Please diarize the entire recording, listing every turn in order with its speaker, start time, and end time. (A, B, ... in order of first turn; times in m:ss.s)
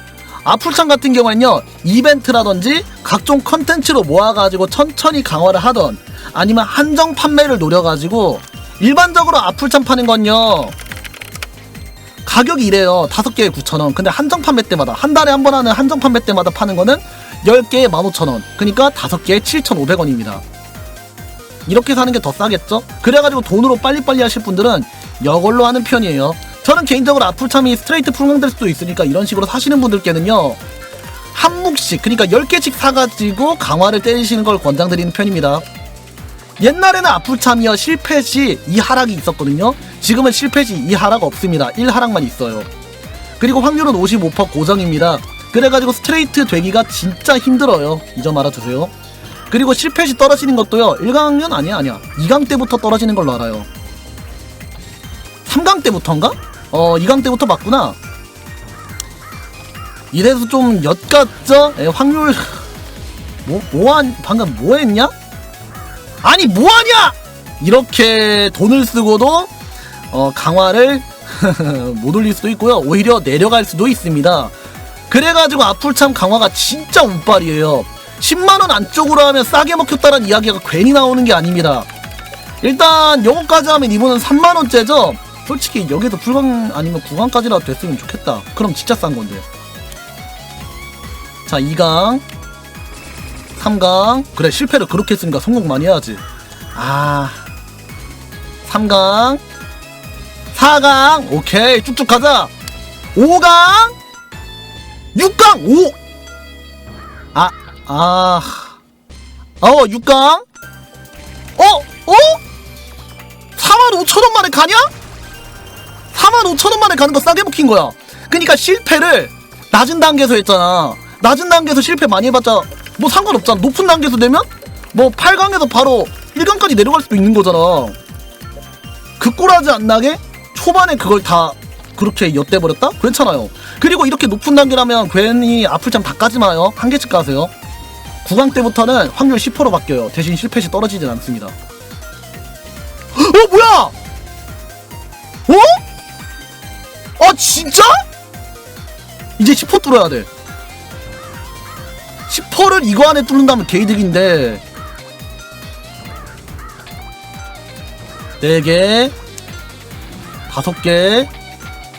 0:00.4-0:10.8 A
0:12.2-0:20.4 A
0:21.7-0:30.6 A
0:31.3-0:35.6 A
0:36.6-0:42.7 A
0:43.4-0:48.9 A
0:49.5-0:53.7 A
0:55.4-0:58.0 A
1:00.1-1:02.7 A
1:03.4-1:05.1 A
1:06.2-1:09.5 A
1:10.1-1:14.6 A
1:15.1-1:21.9 A
1:22.6-1:29.4 A
1:31.5-1:32.2 A
1:33.6-1:36.2 A
1:36.8-1:37.4 A
1:38.6-1:39.4 A
1:40.5-1:42.5 A
1:43.2-1:44.0 A
1:45.2-1:46.0 A
1:47.3-1:48.8 A
1:49.6-1:50.4 A
1:51.6-1:52.4 A
1:53.6-1:54.9 A
1:56.1-2:08.0 A
2:09.2-2:17.5 A
2:18.2-2:21.5 A
2:23.1-2:23.9 A
2:25.5-2:25.8 A
2:27.2-2:28.0 A
2:29.4-2:30.3 A
2:32.3-2:34.6 A
2:38.4-2:39.1 A
2:40.5-2:41.3 A